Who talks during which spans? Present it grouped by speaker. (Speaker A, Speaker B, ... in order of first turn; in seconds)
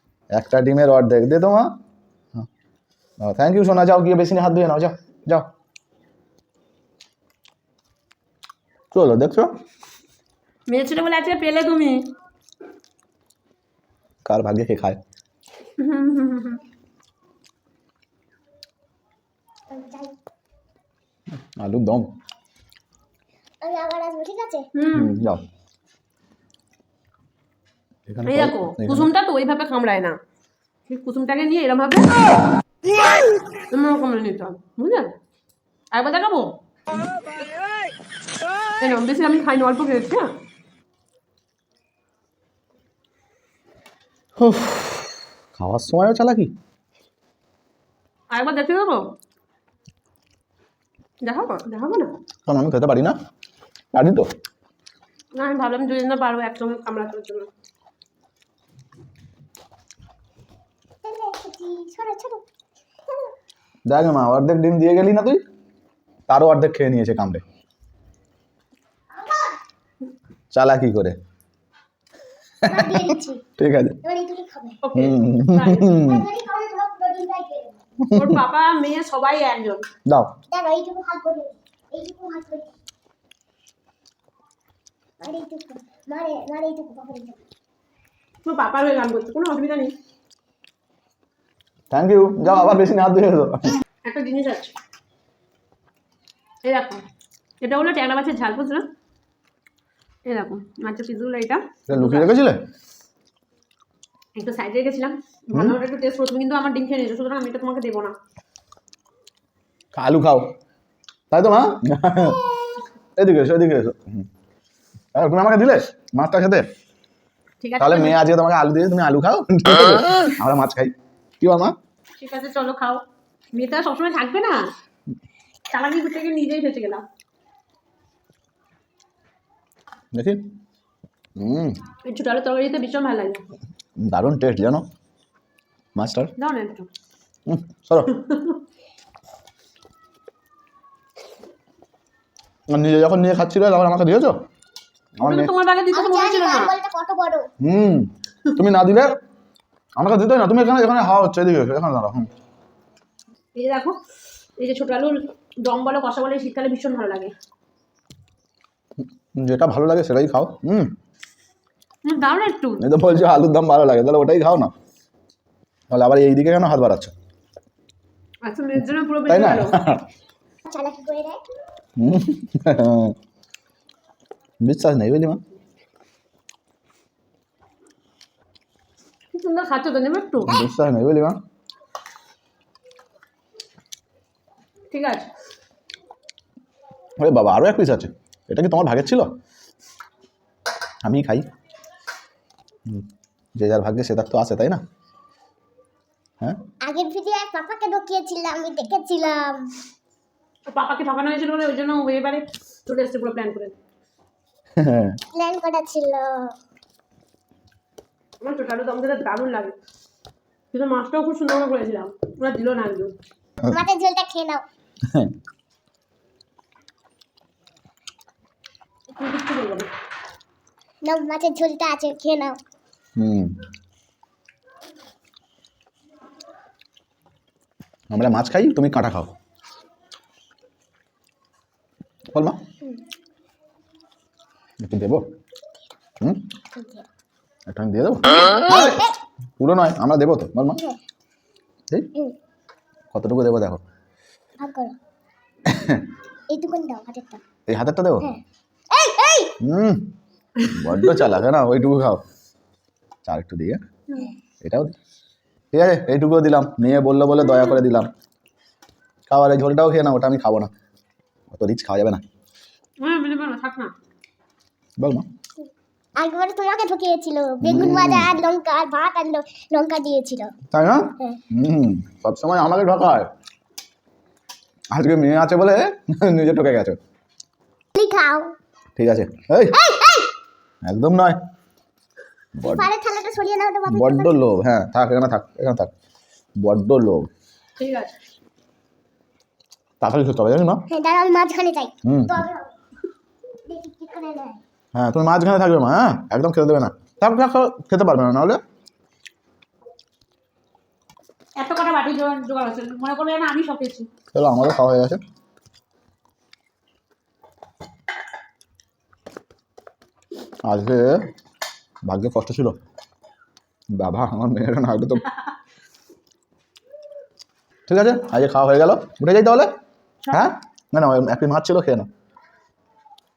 Speaker A: 0.3-1.7, 3.2-5.5, 8.9-9.5, 14.2-15.0, 21.6-22.1, 24.9-25.4, 28.1-29.1, 44.4-46.5, 52.5-53.2, 53.9-54.3, 63.9-65.4, 66.3-67.4, 70.5-71.2, 72.6-74.0, 74.9-76.2, 78.0-78.4, 80.0-80.3, 91.9-93.8, 101.9-102.6, 105.5-105.8, 109.9-110.5, 111.3-112.4, 113.2-114.2, 115.1-116.7, 117.8-121.7, 130.1-130.5, 131.4-131.8, 134.0-134.8, 135.9-136.3, 137.4-138.1, 142.7-144.4, 145.2-145.5, 147.6-149.2, 149.9-152.3, 159.3-160.9, 162.8-164.7, 165.9-167.1, 169.3-170.1, 172.0-173.1, 174.6-175.4, 180.4-181.4, 187.2-189.3, 191.0-191.4, 192.9-194.8, 204.8-205.2, 215.0-215.3, 223.2-223.6, 228.1-229.3, 232.3-232.6, 234.8-235.2, 237.7-239.0, 239.6-240.8, 243.1-243.8, 245.7-246.1, 247.7-248.3, 249.6-250.1, 250.7-252.2, 253.2-253.8, 254.6-254.9, 255.7-258.1, 259.3-260.7, 261.5-262.2, 265.0-265.2, 267.6-268.3, 270.7-273.3, 274.9-277.0, 278.9-279.8, 280.8-281.4, 282.6-282.9, 283.9-285.9, 286.6-287.3, 290.0-290.8, 292.0-292.4, 294.9-298.6, 304.3-305.2, 310.6-311.3, 312.0-312.8, 313.9-315.3, 317.9-319.7, 320.3-322.1
Speaker B: 10.7-12.1, 15.8-16.6, 24.7-25.1, 28.2-30.2, 30.9-32.2, 33.7-35.1, 35.9-36.5, 38.8-40.3, 48.3-49.0, 51.2-52.1, 55.3-57.5, 74.8-75.9, 78.1-79.9, 88.4-89.9, 94.0-94.7, 96.6-97.0, 97.6-98.8, 100.2-102.3, 104.3-108.2, 117.6-118.2, 122.2-124.7, 125.7-127.0, 132.0-133.4, 136.4-136.9, 138.1-138.6, 145.2-146.7, 153.6-154.0, 154.6-157.3, 162.0-162.8, 168.4-169.8, 179.3-180.6, 184.9-185.3, 200.7-203.8, 208.4-209.7, 210.7-213.1, 219.1-219.9, 250.6-251.2, 263.0-263.9, 287.8-288.2, 301.6-304.1, 320.2-320.5
Speaker C: 19.7-20.1, 23.6-24.7, 61.0-62.4, 69.1-69.5, 72.6-73.4, 74.0-74.8, 75.9-77.8, 80.5-82.7, 85.2-87.4, 145.9-147.5, 170.7-171.4, 196.8-199.7, 205.3-206.5, 213.7-214.6, 221.0-222.6, 236.8-237.0, 238.5-239.2, 244.6-244.9, 246.5-247.4, 248.2-249.5, 266.2-270.6, 277.9-278.5, 279.7-280.3, 282.6-284.4, 290.9-292.7, 293.7-294.6